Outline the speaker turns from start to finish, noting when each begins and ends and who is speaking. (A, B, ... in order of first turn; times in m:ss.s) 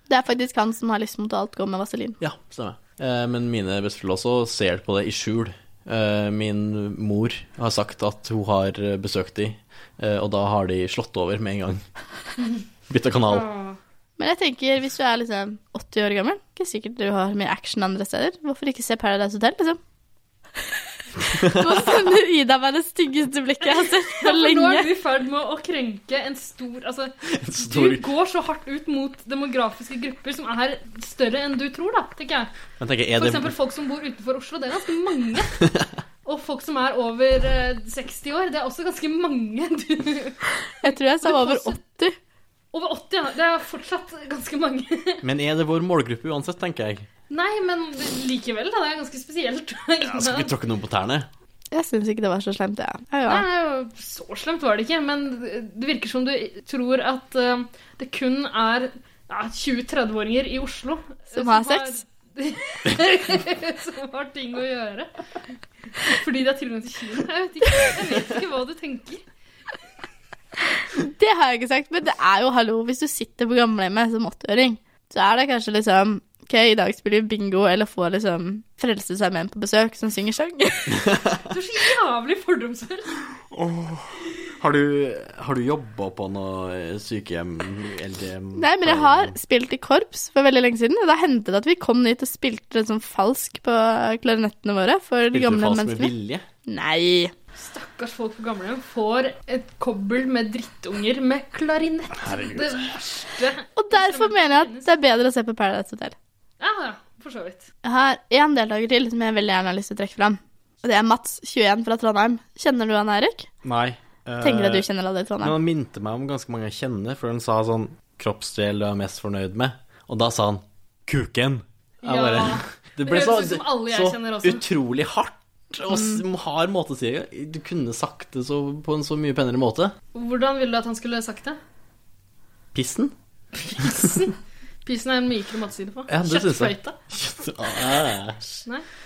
0:00.1-0:02.2 A
0:02.2-0:11.8 B
0:12.9-0:13.5 B
0:13.3-0:13.8 C
0:14.2-0:19.8 A
0:21.2-0:24.9 A
0:21.4-0:21.6 B
0:23.7-0:32.5 C
0:27.3-0:28.0 B
0:32.8-0:33.5 B
0:33.2-0:35.6 C
0:35.6-0:35.9 B
0:36.2-0:41.8 C
0:40.8-0:42.2 A
0:42.7-0:45.2 C
0:45.2-0:47.1 B
0:47.3-0:50.5 C
0:50.0-0:51.3 B
0:51.7-0:53.4 A
0:53.3-1:05.1 C
1:01.3-1:02.0 A
1:06.0-1:09.2 C
1:10.9-1:21.0 A
1:21.5-1:23.2 C
1:23.6-1:24.0 B
1:24.6-1:29.4 B
1:28.6-1:36.1 A
1:35.3-1:36.4 B
1:36.7-1:37.3 A
1:37.6-1:44.9 C
1:42.2-1:42.9 B
1:43.8-1:46.2 A
1:46.6-1:47.7 C
1:47.8-1:53.5 A
1:53.6-1:54.9 B
1:54.4-1:55.6 A
1:55.4-2:09.9 B
2:02.0-2:04.6 C
2:05.9-2:06.2 A
2:10.1-2:11.6 C
2:12.7-2:13.1 B
2:13.6-2:14.3 C
2:14.8-2:17.0 C
2:16.1-2:18.6 B